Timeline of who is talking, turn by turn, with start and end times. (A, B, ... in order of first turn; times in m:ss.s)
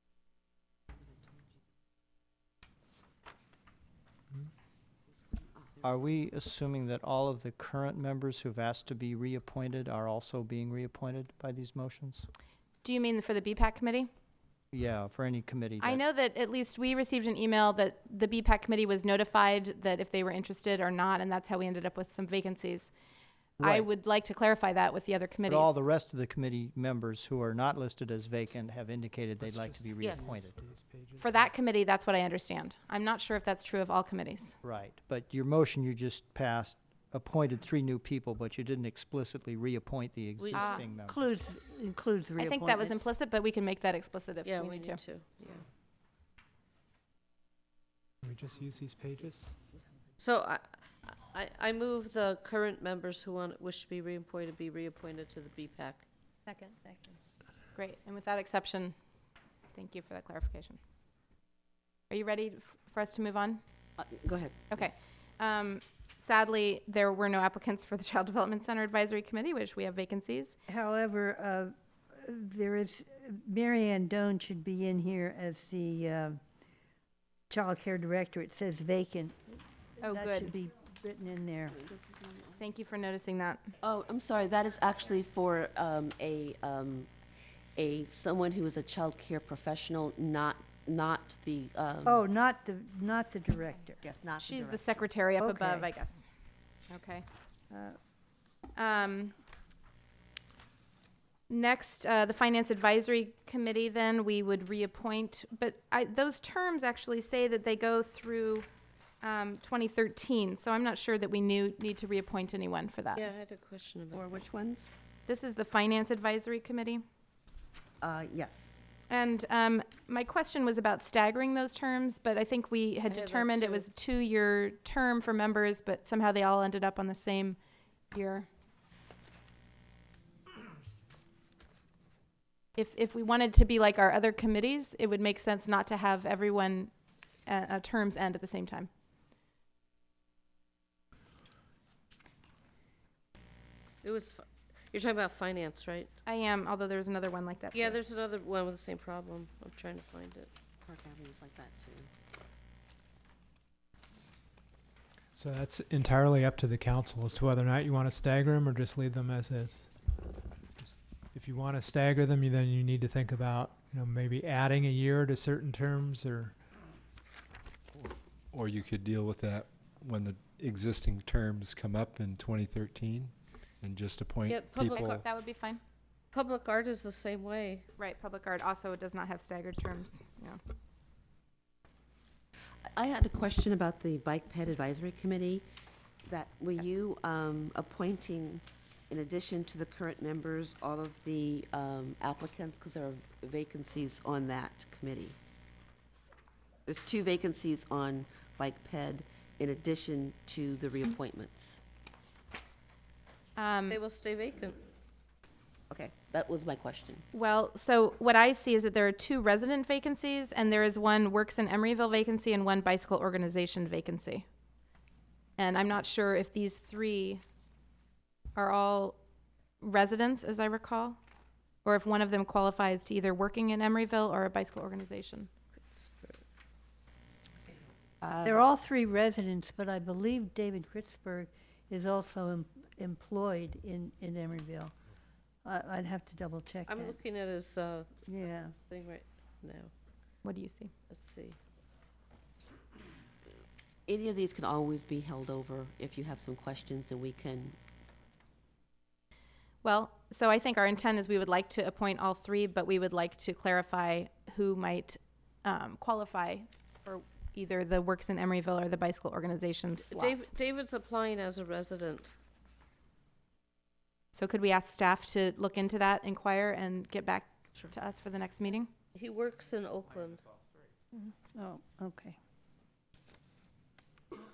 0:05.8-0:12.3 A
0:12.8-0:14.1 B
0:14.7-0:16.0 A
0:15.8-0:22.9 B
0:23.6-0:25.7 B
0:23.6-0:23.9 A
0:25.5-0:30.6 A
0:29.4-0:31.5 C
0:30.0-0:30.2 D
0:31.2-0:34.6 B
0:34.6-0:41.3 A
0:40.4-0:40.9 E
0:40.5-0:40.8 B
0:41.0-0:43.0 F
0:42.4-0:45.0 B
0:44.4-0:45.6 E
0:48.2-0:49.5 C
0:50.2-0:56.0 E
0:56.5-0:57.0 F
0:57.7-0:58.9 B
0:59.7-1:00.8 B
1:02.1-1:03.6 B
1:04.0-1:05.0 D
1:04.7-1:10.6 B
1:10.7-1:16.4 F
1:17.5-1:21.8 F
1:20.0-1:20.5 B
1:21.8-1:22.6 D
1:22.6-1:23.7 B
1:23.8-1:27.1 D
1:27.8-1:32.2 D
1:32.0-1:34.0 F
1:34.0-1:34.9 D
1:34.4-1:36.2 B
1:35.4-1:35.9 F
1:36.9-1:37.2 B
1:37.7-1:38.0 F
1:38.8-1:39.3 B
1:41.5-1:48.6 B
1:49.2-1:53.3 B
1:53.1-1:54.2 E
1:54.1-1:54.9 D
1:55.3-1:57.0 B
1:58.0-1:58.8 D
1:59.1-2:07.6 B
2:03.1-2:03.9 E
2:08.1-2:08.5 B
2:12.8-2:18.9 B
2:24.0-2:26.1 E
2:26.2-2:28.0 B
2:27.7-2:30.5 E
2:30.8-2:32.1 D
2:35.3-2:39.9 C
2:40.8-2:46.5 C
2:47.9-2:55.2 G
2:54.4-2:55.2 E
2:54.9-2:55.8 B
2:56.3-2:57.8 E
2:58.0-3:00.6 B
3:02.9-3:05.6 D
3:06.2-3:15.4 D
3:16.9-3:21.8 D
3:23.6-3:24.0 B
3:23.9-3:24.8 E
3:25.9-3:27.2 D
3:27.3-3:34.4 B
3:35.6-3:37.4 B
3:38.5-3:39.2 B
3:39.8-3:41.2 B
3:41.8-3:45.5 B
3:45.8-3:46.4 E
3:48.2-3:48.6 D
3:48.4-3:54.9 F
3:55.6-3:57.2 F
3:56.9-3:59.9 E
3:58.3-3:58.7 F
4:00.4-4:00.9 B
4:01.1-4:01.6 E
4:04.1-4:07.8 D
4:09.8-4:20.5 B
4:20.1-4:22.3 E
4:24.3-4:28.9 B
4:29.1-4:30.5 E
4:31.2-4:32.4 F